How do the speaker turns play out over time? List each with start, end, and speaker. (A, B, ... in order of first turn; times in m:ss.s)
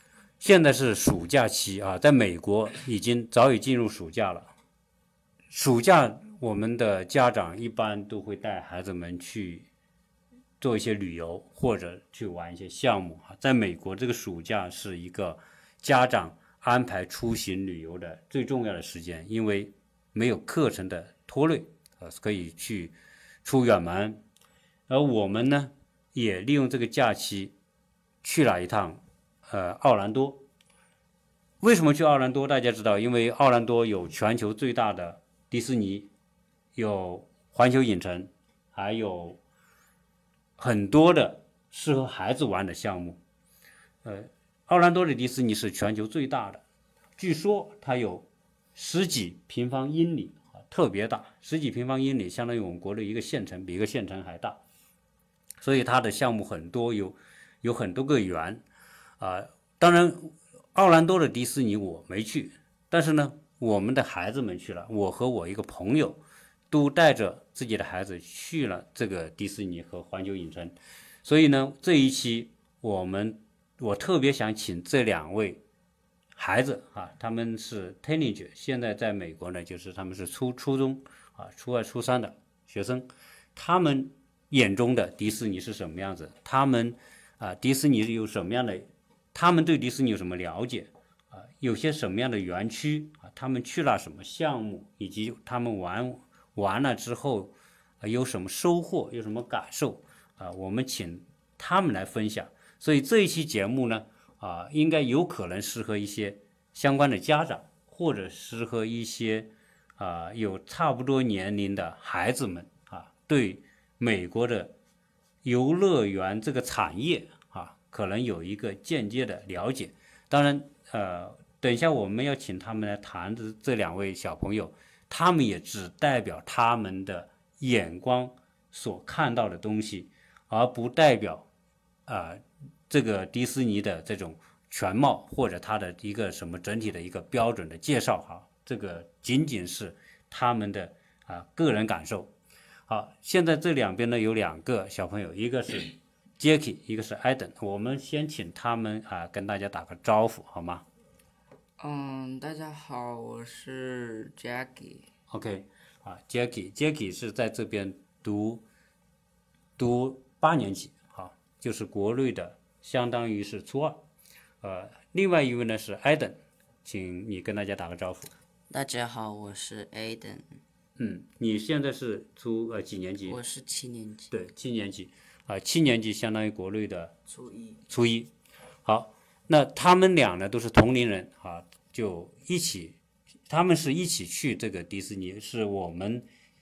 0:00.4-0:04.5 A
0:05.5-0:09.6 A
0:10.6-0:22.9 A
0:23.4-0:24.2 A
0:24.9-0:27.5 A
0:28.2-0:30.4 A
0:31.6-0:36.1 A
0:36.7-0:39.4 A
0:40.6-0:43.2 A
0:44.0-0:46.6 A
0:47.2-0:54.6 A
0:55.6-0:58.6 A
0:59.2-1:06.2 A
1:06.7-1:15.6 A
1:16.4-1:54.7 A
1:55.4-2:11.4 A
2:12.1-2:22.3 A
2:22.9-2:30.8 A
2:31.8-2:35.1 B
2:35.3-2:38.6 A
2:39.8-2:44.0 A
2:44.6-2:48.3 A
2:48.7-2:50.6 C
2:51.0-2:53.4 A
2:53.2-2:54.3 C
2:54.3-2:57.1 A
2:57.3-2:57.8 C
2:57.9-2:58.3 A
2:58.8-3:03.0 A
3:03.5-3:06.2 A